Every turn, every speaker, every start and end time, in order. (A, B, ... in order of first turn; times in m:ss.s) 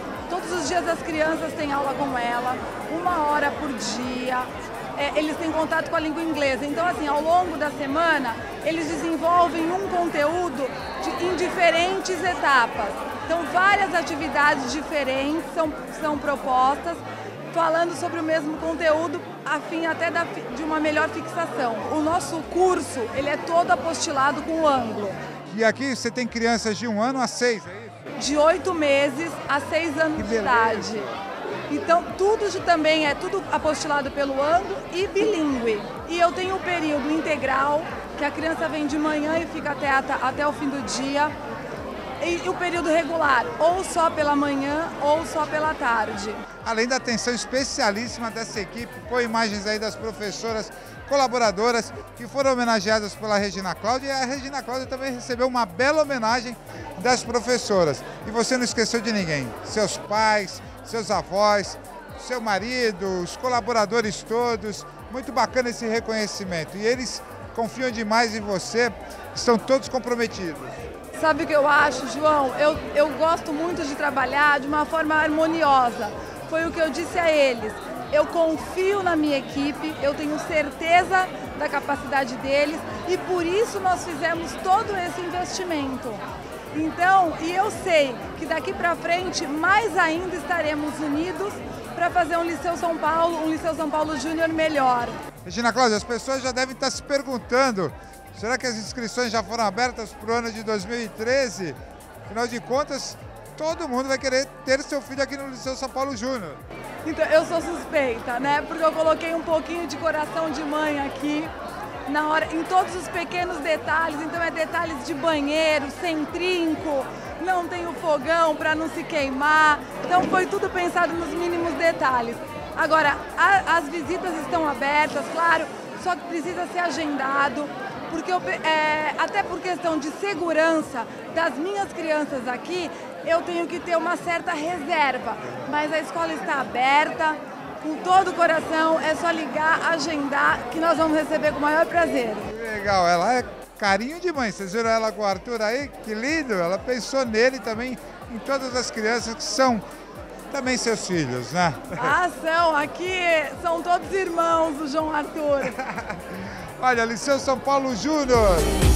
0:00.3-0:17.0 A
0:17.5-0:25.2 A
0:25.5-0:28.1 B
0:28.2-0:31.1 A
0:30.2-0:31.2 B
0:31.7-0:41.3 A
0:42.2-0:46.4 A
0:46.6-1:10.8 B
1:11.1-1:35.2 A
1:35.4-1:46.6 B
1:47.0-1:51.5 A
1:52.1-2:22.5 A
2:22.5-2:29.8 B
2:30.5-2:32.2 B
2:31.9-2:35.8 A
2:35.8-2:38.8 B